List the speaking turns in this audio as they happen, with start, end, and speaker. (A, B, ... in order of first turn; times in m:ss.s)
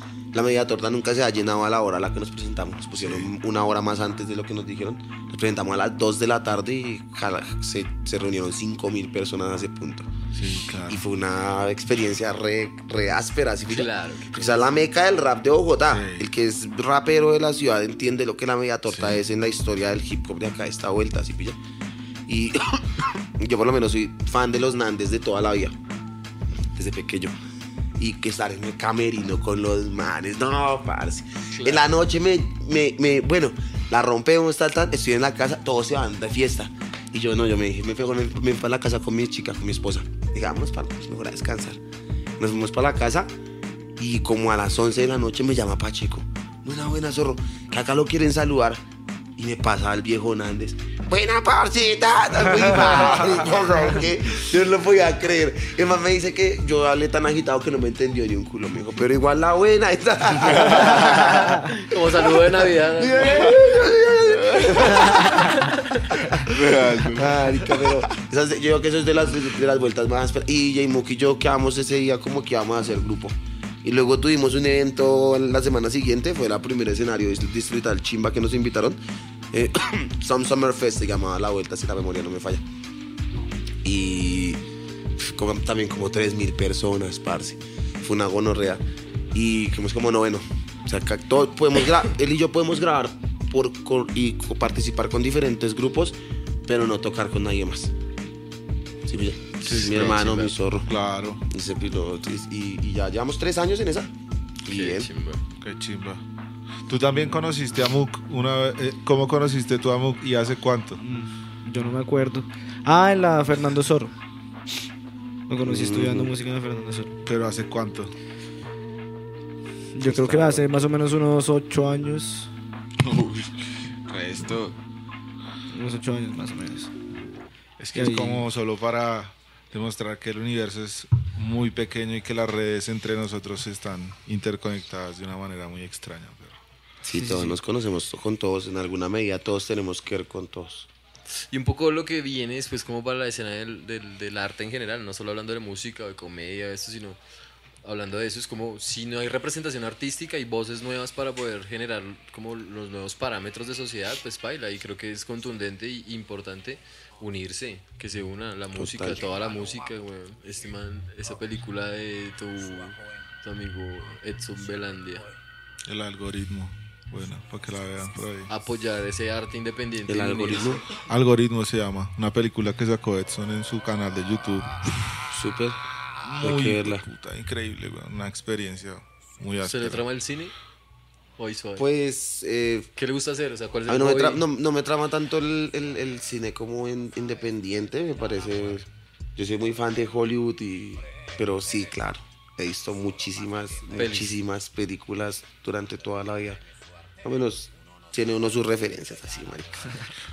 0:00.3-0:10.1 A
0:03.0-0:03.3 B
0:10.3-0:11.0 B
0:10.9-0:21.6 A
0:13.6-0:14.8 C
0:15.9-0:16.2 B
0:18.9-0:19.2 B
0:22.3-0:25.8 A
0:26.7-0:27.3 A
0:28.0-0:41.8 A
0:31.5-0:32.0 C
0:42.4-0:43.3 A
0:44.0-0:48.8 A
0:49.4-1:01.7 A
1:00.9-1:03.6 C
1:02.2-1:19.0 A
1:04.8-1:06.0 C
1:06.4-1:07.4 D
1:19.5-1:22.6 A
1:23.8-1:24.6 A
1:25.2-1:37.9 A
1:39.0-1:40.9 A
1:39.6-1:40.5 C
1:39.6-1:40.3 B
1:40.9-1:41.4 B
1:41.5-1:44.1 A
1:44.6-1:45.1 A
1:44.7-1:45.4 C
1:45.6-1:46.2 B
1:46.9-1:51.0 B
1:51.0-1:54.1 E
1:55.5-1:57.1 E
1:55.6-1:56.3 A
1:57.2-1:58.1 B
1:59.9-2:02.5 E
2:00.0-2:00.6 A
2:03.0-2:04.8 D
2:05.7-2:06.9 E
2:07.8-2:16.6 B
2:07.9-2:08.5 E
2:17.0-2:17.6 E
2:17.0-2:20.9 A
2:21.3-2:27.2 C
2:27.8-2:45.3 C
2:38.7-2:39.3 A
2:45.9-2:48.5 B
2:48.5-2:50.8 C
2:50.1-2:50.9 A
2:51.1-2:55.2 B
2:55.2-2:55.8 A
2:56.2-3:00.0 B
2:56.4-2:57.0 A
2:59.6-3:00.5 C
3:01.4-3:01.8 C
3:01.8-3:02.9 A
3:03.0-3:04.4 C
3:03.9-3:16.6 A
3:13.9-3:14.4 C
3:17.2-3:20.0 A